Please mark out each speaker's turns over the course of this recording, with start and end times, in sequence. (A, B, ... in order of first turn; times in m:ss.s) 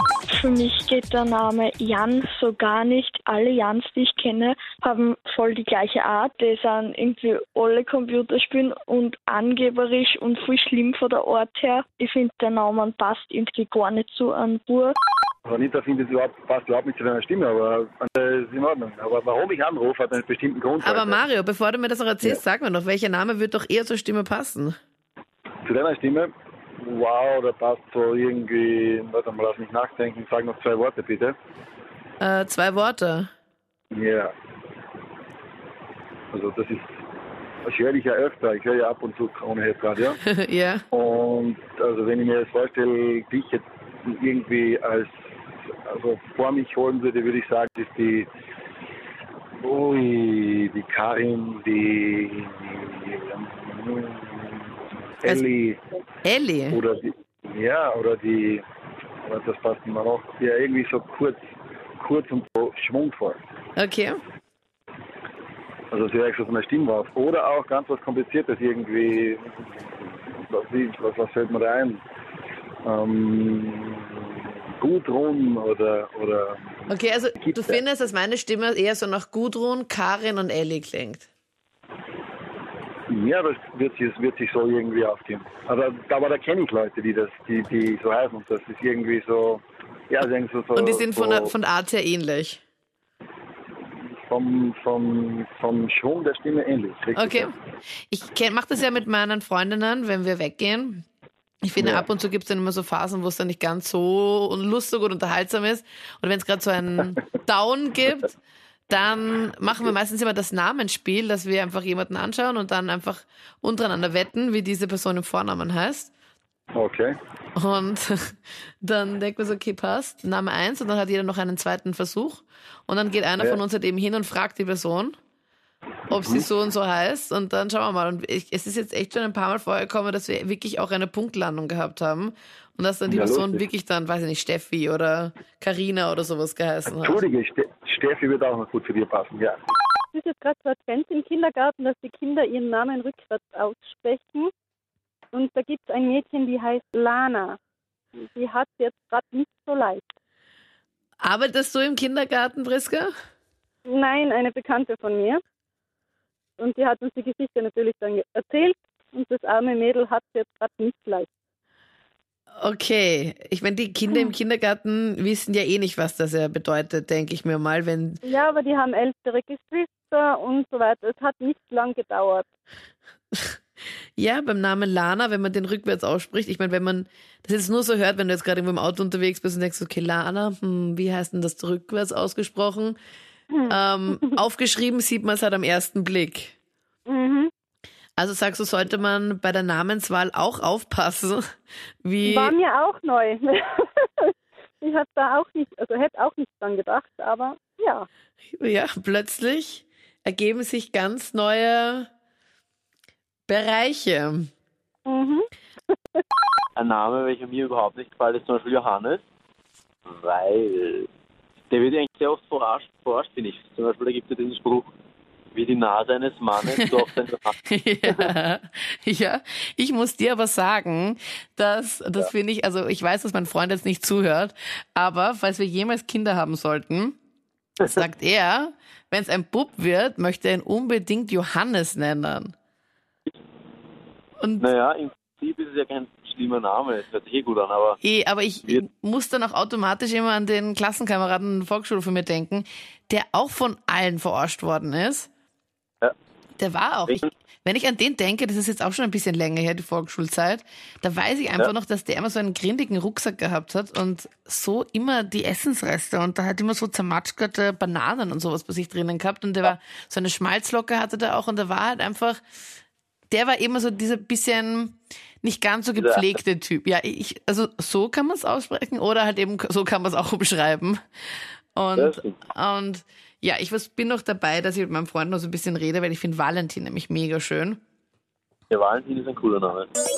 0:00.4-0:15.0 A
0:15.5-0:21.2 B
0:20.8-0:24.8 C
0:25.7-0:26.3 B
0:26.8-0:31.4 B
0:32.2-0:33.3 C
0:33.9-0:34.3 B
0:36.3-0:36.9 B
0:37.6-0:40.2 B
0:40.2-0:40.8 C
0:40.9-0:45.1 B
0:45.9-0:48.3 B
0:49.6-0:54.7 B
0:55.2-0:55.8 B
0:56.2-0:56.8 C
0:56.7-0:58.6 B
0:59.2-1:01.4 B
1:02.0-1:03.4 B
1:03.8-1:04.2 C
1:05.9-1:12.0 B
1:12.8-1:16.8 B
1:16.9-1:21.3 C
1:17.4-1:17.8 B
1:23.1-1:31.5 B
1:30.8-1:32.6 C
1:34.0-1:37.5 B
1:37.2-1:37.5 C
1:38.1-1:41.1 C
1:41.6-1:48.4 C
1:41.8-1:42.1 B
1:48.9-1:56.1 C
1:56.8-1:57.2 B
1:57.6-2:05.2 C
2:06.1-2:17.2 C
2:06.1-2:06.5 B
2:13.1-2:13.6 B
2:17.0-2:19.6 B
2:20.1-2:24.4 D
2:25.3-2:27.4 D
2:28.4-2:30.0 D
2:31.2-2:33.1 C
2:33.9-2:35.4 D
2:36.6-2:41.2 D
2:42.6-2:48.2 C
2:48.4-2:52.4 D
2:53.3-2:53.6 C
2:54.2-3:03.0 C
3:03.7-3:06.6 C
3:07.1-3:07.5 D
3:08.2-3:11.5 C
3:12.0-3:12.6 C
3:12.6-3:13.5 D
3:14.8-3:17.0 D
3:18.5-3:22.1 C
3:23.5-3:24.5 C
3:26.8-3:29.2 E
3:30.1-3:31.1 E
3:31.7-3:34.9 E
3:35.6-3:37.6 E
3:37.6-3:47.2 C
3:47.8-3:52.6 C
3:54.4-3:54.7 C
3:54.6-3:58.0 E
3:58.0-4:05.3 C
4:06.6-4:22.4 C
4:23.3-4:31.0 C
4:26.0-4:26.2 E
4:31.8-4:37.8 C
4:32.0-4:32.4 E
4:38.7-4:39.9 E